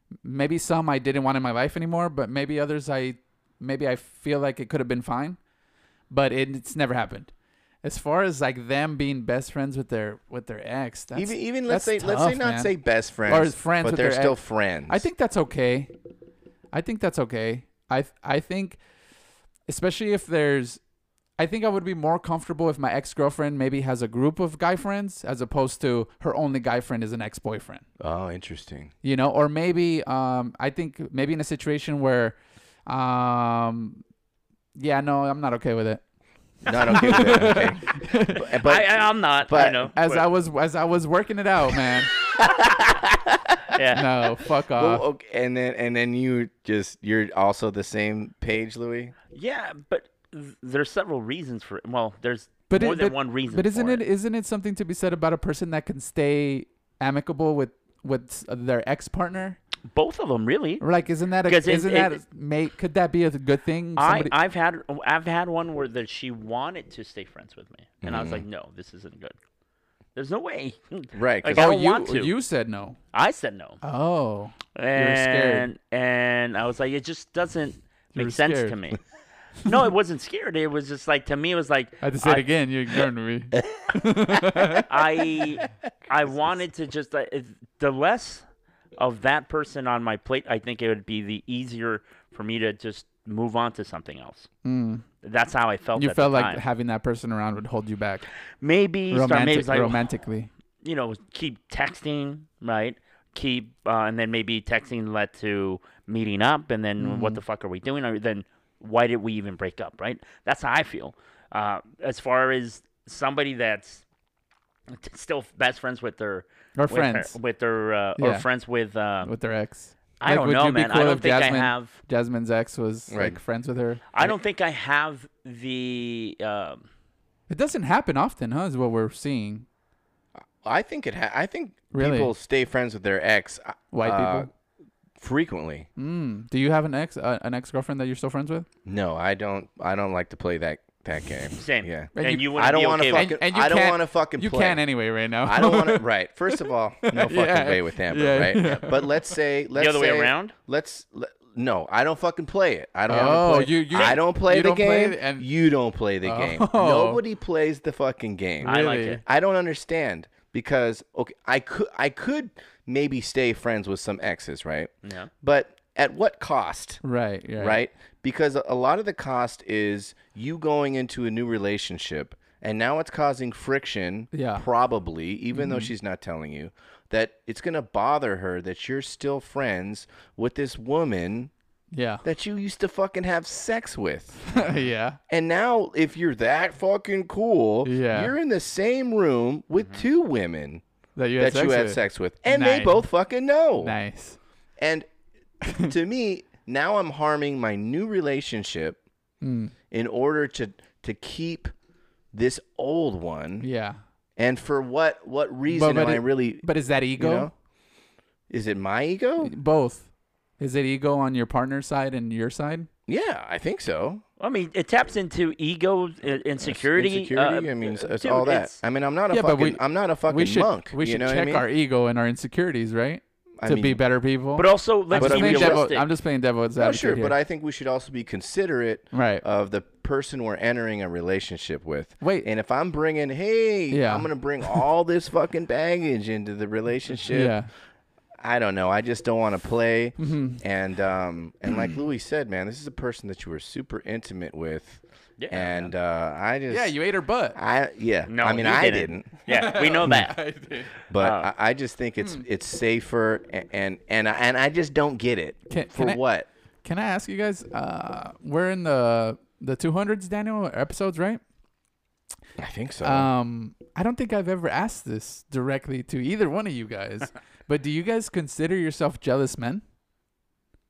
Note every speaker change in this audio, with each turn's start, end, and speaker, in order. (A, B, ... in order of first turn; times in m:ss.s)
0:00.2-0:05.4 A
0:06.1-0:07.3 A
0:07.8-0:12.7 A
0:11.1-0:15.1 B
0:13.2-0:15.9 A
0:16.7-0:18.8 A
0:19.7-0:20.8 A
0:21.4-0:27.8 A
0:28.0-0:28.9 B
0:29.0-0:34.0 A
0:34.7-0:36.0 A
0:36.6-0:39.9 B
0:36.8-0:38.5 A
0:38.4-0:40.2 C
0:39.9-0:42.1 A
0:43.7-0:44.1 C
0:43.9-0:45.0 A
0:44.7-0:49.1 B
0:49.3-0:54.0 C
0:52.7-0:59.6 A
0:59.9-1:00.8 C
1:00.8-1:04.3 A
1:01.4-1:02.2 C
1:04.0-1:09.4 C
1:08.0-1:08.4 B
1:10.1-1:12.3 C
1:11.1-1:11.7 B
1:11.5-1:13.0 A
1:13.1-1:13.8 C
1:13.8-1:15.7 A
1:14.8-1:19.0 C
1:18.1-1:18.8 A
1:19.6-1:22.4 C
1:22.0-1:24.9 A
1:24.6-1:24.8 B
1:24.8-1:28.4 C
1:29.0-1:34.5 C
1:34.6-1:35.0 A
1:35.2-1:36.6 C
1:36.0-1:38.2 A
1:38.6-1:40.0 C
1:39.1-1:40.5 A
1:40.8-1:54.0 C
1:47.0-1:47.4 A
1:54.9-1:59.3 C
1:56.8-1:57.4 A
1:58.2-1:58.4 A
1:59.2-2:04.3 A
2:00.2-2:01.9 C
2:03.1-2:03.4 B
2:04.1-2:06.8 C
2:07.5-2:09.6 A
2:10.6-2:14.5 B
2:11.9-2:12.3 A
2:13.9-2:14.5 A
2:15.2-2:15.9 B
2:16.0-2:18.7 A
2:18.8-2:24.8 B
2:21.6-2:23.3 C
2:22.1-2:29.4 A
2:25.4-2:47.0 B
2:29.7-2:30.5 C
2:33.1-2:35.5 A
2:33.9-2:34.2 C
2:36.2-2:37.2 A
2:38.6-2:39.2 A
2:38.6-2:39.2 C
2:45.0-2:45.3 C
2:47.0-2:47.8 A
2:47.6-3:01.5 B
2:54.3-2:54.6 A
2:55.5-2:55.9 A
3:01.9-3:02.2 A
3:02.2-3:04.6 B
3:04.5-3:05.2 A
3:05.3-3:10.8 B
3:07.8-3:08.3 A
3:09.8-3:10.0 C
3:11.2-3:13.1 A
3:11.4-3:14.0 B
3:13.8-3:14.4 A
3:14.8-3:15.1 B
3:15.6-3:15.9 A
3:15.7-3:19.0 B
3:19.4-3:19.7 A
3:19.9-3:21.7 B
3:22.3-3:23.7 B
3:23.6-3:24.0 A
3:24.4-3:26.6 B
3:25.7-3:27.5 A
3:27.2-3:27.5 B
3:28.5-3:29.5 B
3:29.4-3:30.1 A
3:30.6-3:32.9 A
3:33.1-3:34.2 B
3:34.4-3:38.8 C
3:36.6-3:41.6 B
3:39.3-3:47.3 A
3:43.6-3:44.0 B
3:44.6-3:46.0 C
3:45.2-3:45.9 B
3:46.8-3:57.6 B
3:49.1-3:49.4 A
3:52.2-3:52.5 A
3:53.9-3:54.3 A
3:57.3-3:57.7 A
3:58.4-4:07.0 B
4:00.2-4:00.6 A
4:05.4-4:05.9 C
4:06.7-4:07.6 A
4:07.5-4:09.3 B
4:08.3-4:10.4 C
4:09.5-4:10.9 A
4:11.1-4:16.5 B
4:11.2-4:11.5 C
4:15.7-4:16.2 A
4:16.8-4:21.4 A
4:22.6-4:23.3 B
4:23.0-4:29.8 A